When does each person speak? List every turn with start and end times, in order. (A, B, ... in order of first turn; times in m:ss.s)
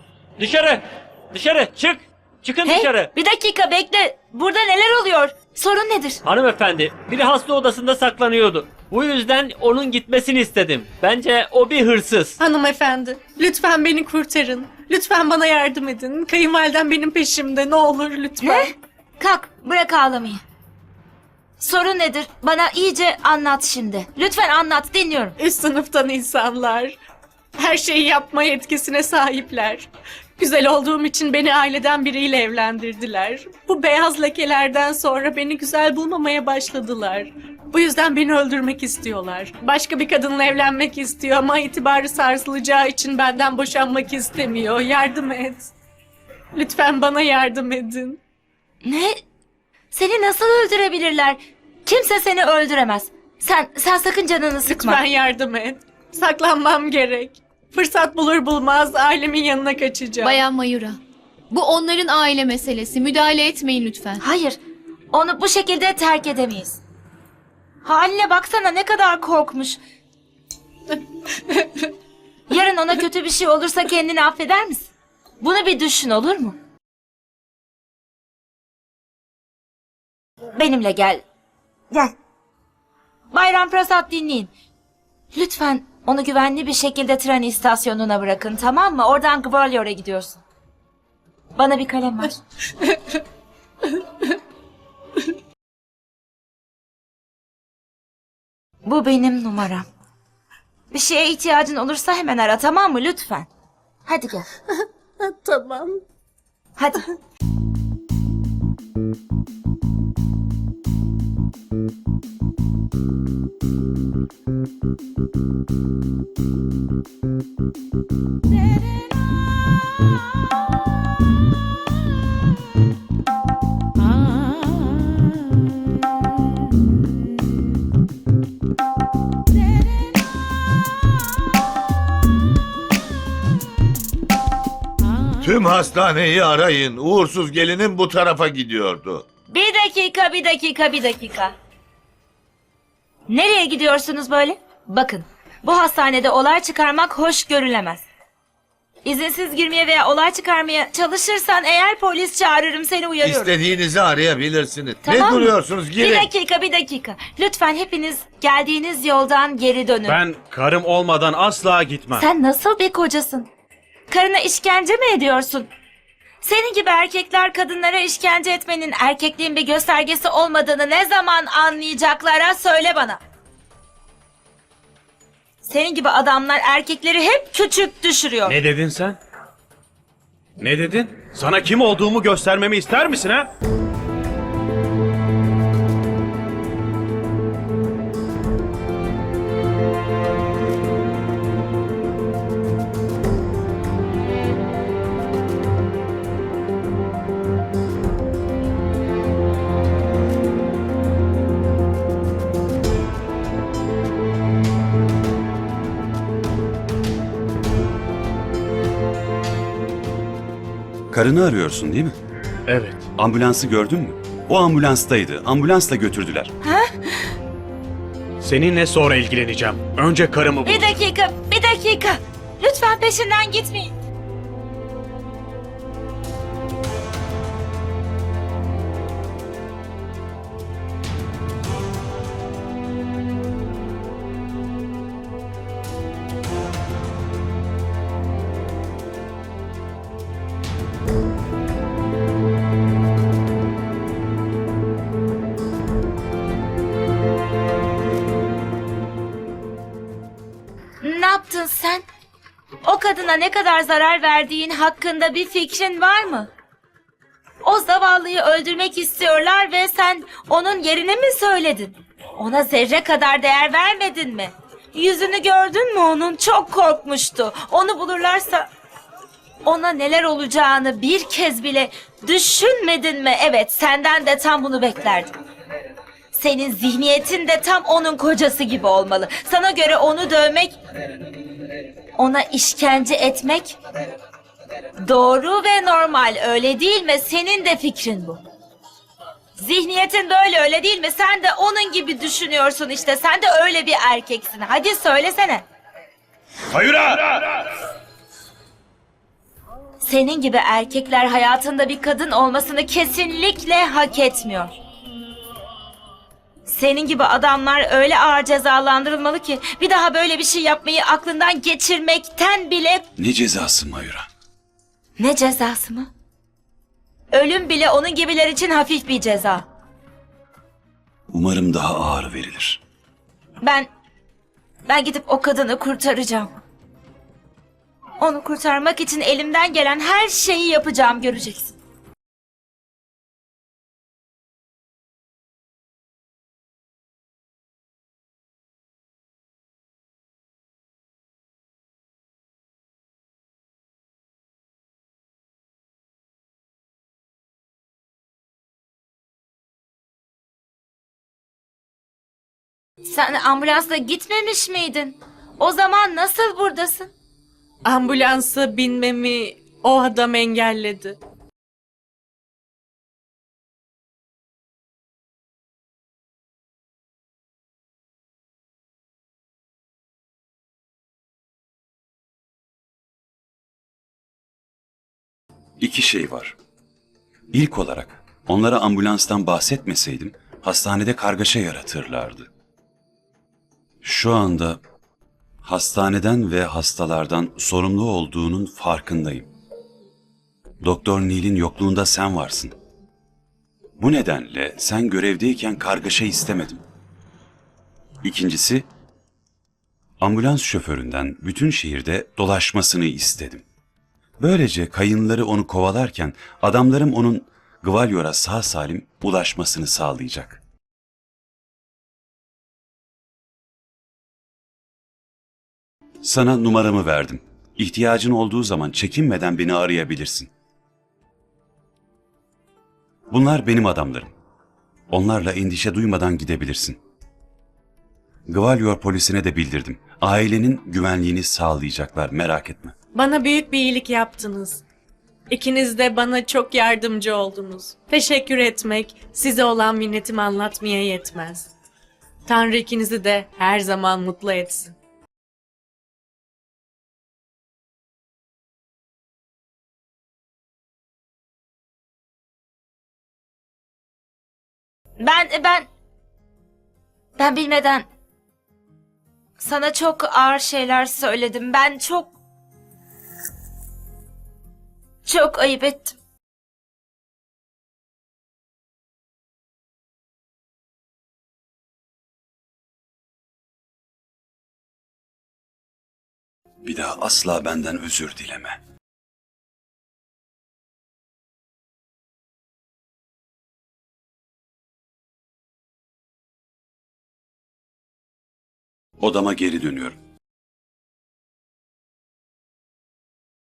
0:00.4-0:03.1 A
0:02.6-0:06.2 B
0:06.2-0:12.4 A
0:12.5-0:18.4 C
0:18.4-0:20.4 B
0:21.6-0:25.4 B
0:25.4-0:26.9 C
0:27.6-0:29.9 C
0:30.4-0:45.7 C
0:46.6-0:48.2 C
0:48.8-0:49.2 B
0:49.9-0:55.0 B
0:55.1-1:00.2 C
1:00.2-1:01.0 D
1:01.5-1:04.2 D
1:04.2-1:04.6 B
1:05.1-1:06.8 B
1:07.8-1:09.8 B
1:12.5-1:14.9 B
1:15.4-1:16.6 B
1:20.5-1:21.2 B
1:23.3-1:24.5 B
1:25.3-1:30.4 B
1:31.6-1:32.4 B
1:38.8-1:39.9 B
1:40.9-1:43.5 B
1:44.1-1:44.5 B
1:45.4-1:46.0 C
1:46.8-1:47.0 B
2:15.4-2:19.2 E
2:19.5-2:21.5 B
2:23.3-2:28.0 B
2:29.0-2:33.5 B
2:33.2-2:36.3 E
2:35.0-2:40.2 B
2:40.1-2:42.2 F
2:42.1-2:43.5 B
2:44.1-2:45.7 B
2:46.4-2:53.2 B
2:55.6-2:58.6 B
2:58.4-2:59.2 F
3:00.6-3:03.5 F
3:31.1-3:32.1 G
3:32.7-3:33.0 F
3:33.2-3:36.5 G
3:36.6-3:37.3 B
3:38.4-3:40.8 F
3:40.6-3:43.9 B
4:11.0-4:12.0 B
4:12.8-4:16.5 B
4:17.6-4:28.7 B
4:29.6-4:35.3 B
4:36.3-4:40.8 B
4:42.2-4:43.8 B
4:45.0-4:48.4 B
4:49.6-4:55.6 B
4:56.8-4:57.1 F
5:00.0-5:04.7 B
5:06.6-5:13.0 B
5:13.2-5:14.3 G
5:15.2-5:16.1 B
5:17.3-5:19.6 B
5:21.3-5:22.8 G
5:23.6-5:23.9 B
5:24.9-5:26.5 B
5:28.2-5:31.7 B
5:53.0-5:57.1 B
5:57.8-6:01.2 C
6:15.8-6:16.6 G
6:17.5-6:22.5 G
6:24.0-6:24.8 G
6:25.6-6:29.5 G
6:30.8-6:32.7 G
6:34.0-6:36.8 G
6:38.2-6:38.9 G
6:40.2-6:43.6 G
6:44.4-6:50.6 G
6:56.2-7:00.5 G
7:03.3-7:04.3 G
7:05.1-7:07.0 G
7:08.5-7:12.9 G
7:13.2-7:14.8 C
7:15.5-7:21.7 C
7:22.5-7:24.9 C
7:35.2-7:35.9 B
7:37.4-7:38.0 B
7:39.6-7:42.3 B
7:45.2-7:46.1 B
7:56.8-7:58.8 G
8:09.2-8:10.2 G